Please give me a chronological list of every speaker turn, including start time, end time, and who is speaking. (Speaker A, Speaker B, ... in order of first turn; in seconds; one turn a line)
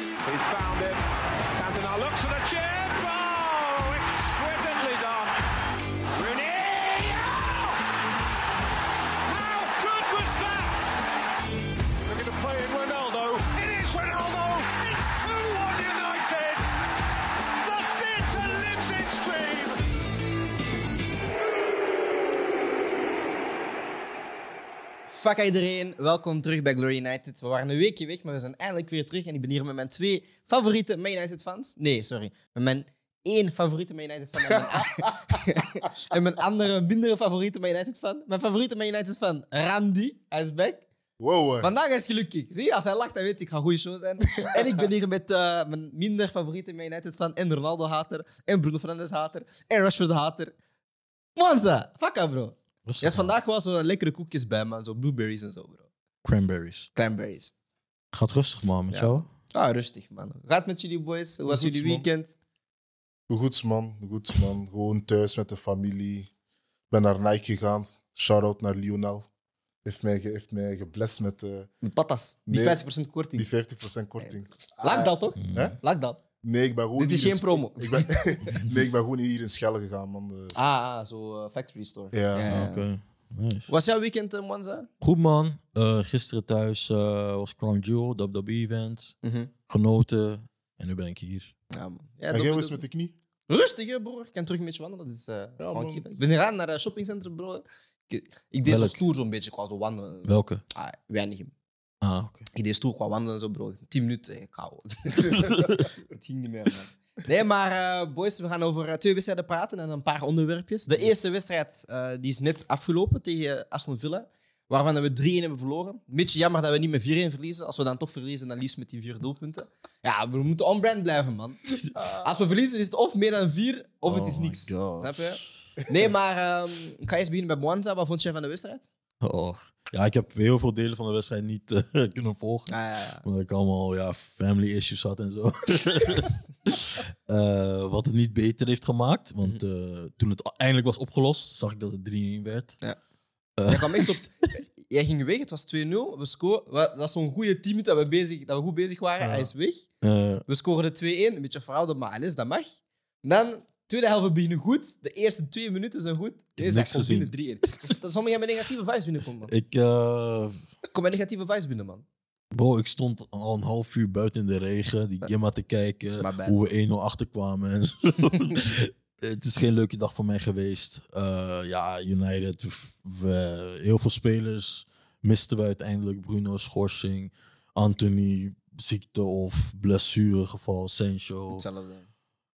Speaker A: 0.2-5.4
Speaker A: 6.1-7.8
Speaker A: 9.2-10.9
Speaker A: 12.0-16.7
Speaker A: 17.6-19.8
Speaker B: 25.1-40.9
Speaker C: 34.9-35.3
Speaker C: 41.2-41.7
Speaker B: 41.6-50.5
Speaker B: 51.4-55.9
Speaker D: 52.9-53.3
Speaker D: 56.2-56.9
Speaker B: 57.0-57.5
Speaker D: 58.1-59.3
Speaker B: 58.9-62.3
Speaker C: 61.5-62.0
Speaker C: 63.3-66.3
Speaker C: 66.9-69.3
Speaker C: 69.8-71.7
Speaker B: 71.8-73.5
Speaker C: 72.5-72.8
Speaker C: 73.3-75.8
Speaker B: 74.2-76.2
Speaker D: 75.4-75.8
Speaker C: 76.4-80.6
Speaker B: 77.0-78.5
Speaker B: 80.5-82.9
Speaker C: 82.1-82.5
Speaker D: 82.5-83.7
Speaker B: 83.7-84.9
Speaker D: 85.0-89.2
Speaker B: 89.2-89.5
Speaker D: 89.7-91.5
Speaker B: 91.7-92.8
Speaker C: 92.3-93.1
Speaker B: 93.5-101.5
Speaker C: 95.6-96.0
Speaker D: 98.7-99.0
Speaker D: 100.3-100.6
Speaker D: 102.0-102.5
Speaker B: 102.5-121.6
Speaker D: 105.3-105.9
Speaker B: 122.1-128.9
Speaker D: 124.1-125.7
Speaker D: 129.2-142.8
Speaker B: 132.7-133.2
Speaker D: 143.6-144.2
Speaker B: 143.7-149.9
Speaker D: 149.2-149.5
Speaker D: 150.0-150.4
Speaker B: 150.5-159.5
Speaker D: 156.6-157.3
Speaker D: 159.5-160.6
Speaker B: 160.9-162.0
Speaker D: 162.5-181.7
Speaker B: 166.1-166.6
Speaker B: 181.5-182.1